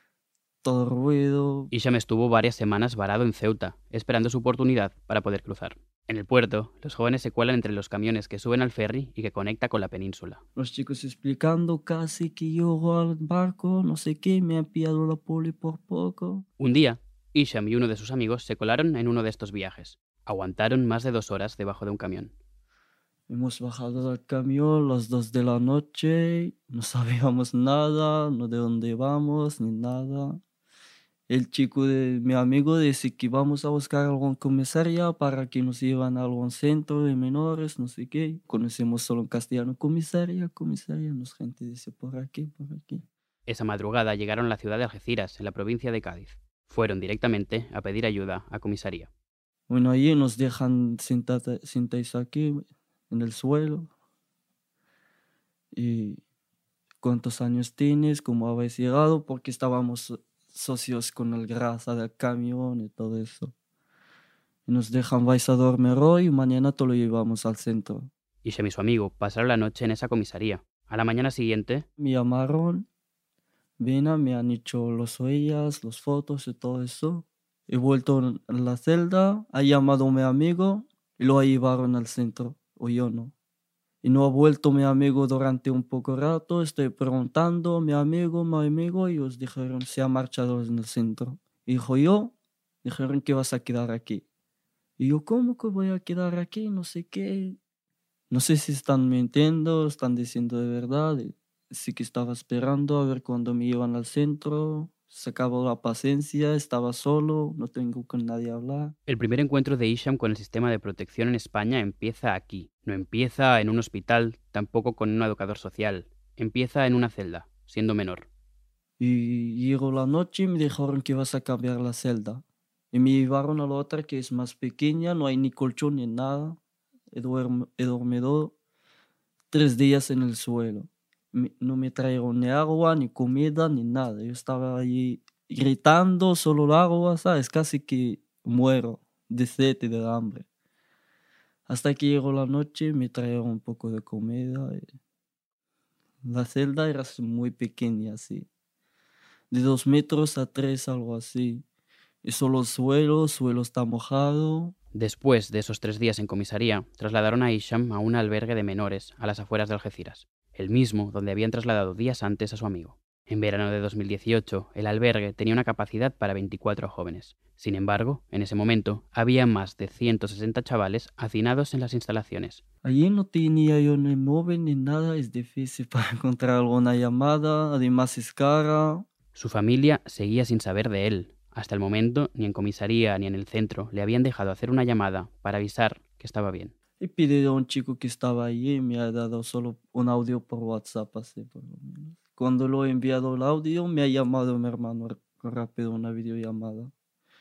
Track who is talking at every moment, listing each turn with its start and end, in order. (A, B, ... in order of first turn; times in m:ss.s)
0:00.6-0:01.7 A
0:01.7-0:10.4 B
0:10.6-0:16.5 A
0:16.6-0:22.3 B
0:23.3-0:30.4 A
0:31.3-0:43.1 A
0:43.5-0:49.1 B
0:49.7-0:53.9 A
0:55.7-0:56.2 A
0:57.0-1:03.5 A
1:04.7-1:08.1 A
1:08.4-1:11.9 B
1:12.0-1:12.9 A
1:13.8-1:23.3 A
1:24.0-1:34.2 A
1:35.0-1:37.6 A
1:38.3-1:49.0 A
1:49.1-1:58.3 B
1:59.0-2:06.6 A
2:07.1-2:08.6 A
2:09.5-2:20.5 A
2:21.7-2:24.9 A
2:26.2-2:28.5 A
2:29.5-2:31.6 A
2:32.2-2:34.8 A
2:34.9-2:52.6 B
2:52.8-2:59.1 A
2:59.4-3:06.7 B
3:07.0-3:16.9 A